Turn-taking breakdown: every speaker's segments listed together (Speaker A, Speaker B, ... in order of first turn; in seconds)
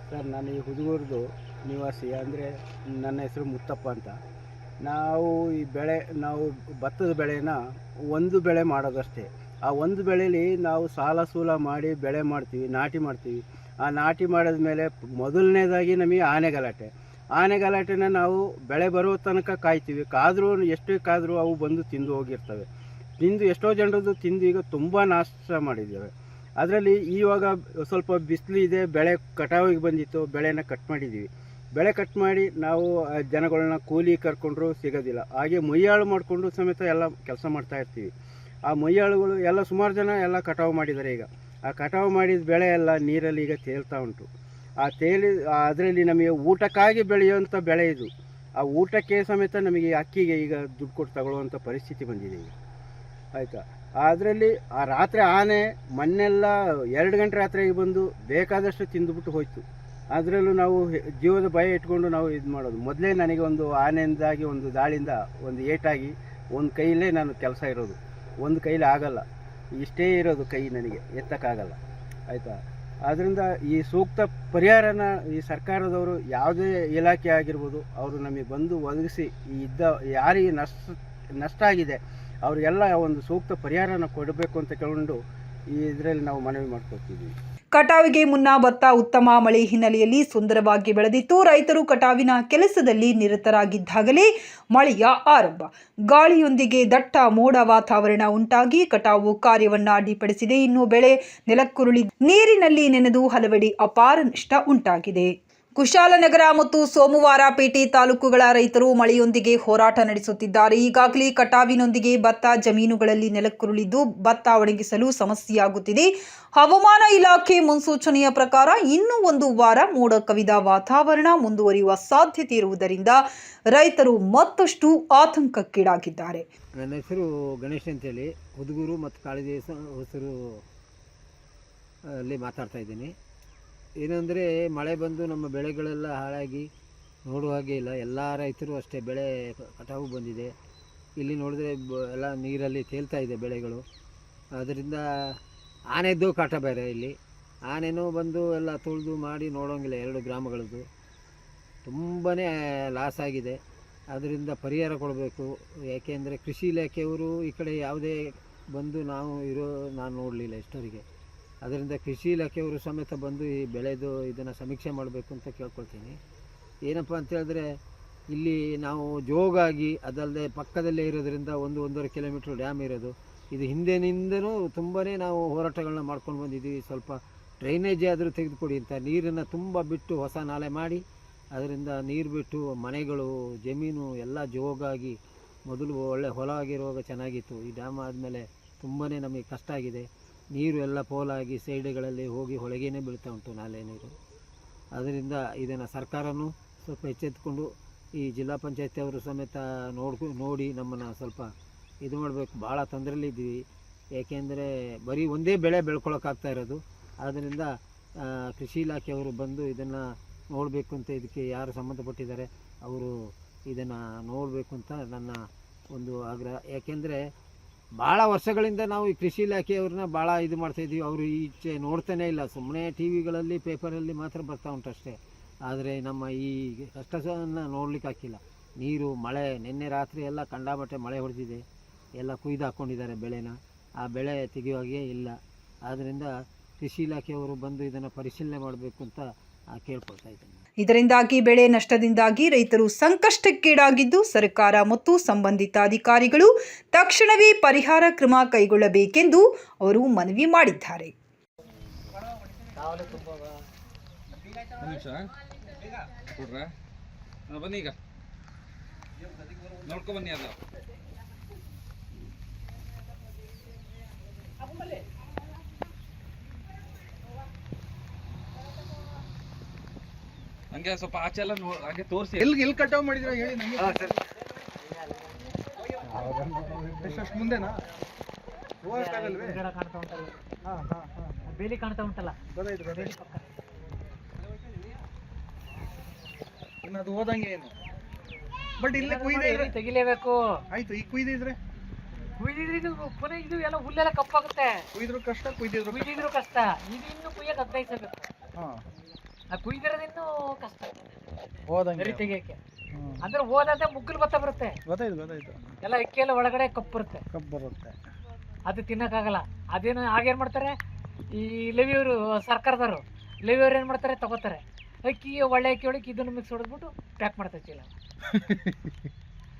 Speaker A: 0.1-2.5, 3.0-4.2, 4.8-7.6, 8.1-22.7, 23.2-26.1, 26.6-31.3, 31.8-38.1, 38.7-44.3, 44.8-48.1, 48.6-52.5, 53.4-59.6, 60.1-69.2, 69.8-71.8, 73.1-80.8, 81.4-85.2, 85.8-87.3
Speaker B: 87.8-126.5, 240.8-251.1
Speaker C: 126.8-130.6, 132.1-133.2, 134.0-136.7, 137.3-140.5, 141.2-143.8, 144.6-145.3, 145.9-147.2, 147.7-150.9, 151.8-153.6, 154.1-161.1, 161.6-166.2, 166.9-167.7, 168.3-194.2, 195.0-201.5, 202.0-203.6, 204.2-213.2, 213.7-217.2, 218.0-231.6, 232.2-240.6
Speaker D: 252.8-253.6, 278.9-280.4, 281.5-282.4, 282.9-283.5, 289.0-290.6, 292.4-294.8, 295.9-298.3, 299.5-301.1, 302.0-302.6, 303.2-304.8, 305.8-307.2, 308.7-310.7, 311.3-317.9
Speaker E: 254.8-255.3, 256.1-256.7, 257.5-258.0, 259.8-260.6, 270.7-272.5
Speaker F: 272.4-274.2, 276.2-277.8, 278.9-279.6, 280.6-281.4, 282.5-283.1, 286.8-287.8, 288.8-289.7, 290.7-291.6, 294.9-296.3, 298.6-298.8, 301.7-302.3, 302.9-303.2, 304.9-305.8, 307.3-308.0, 318.3-319.0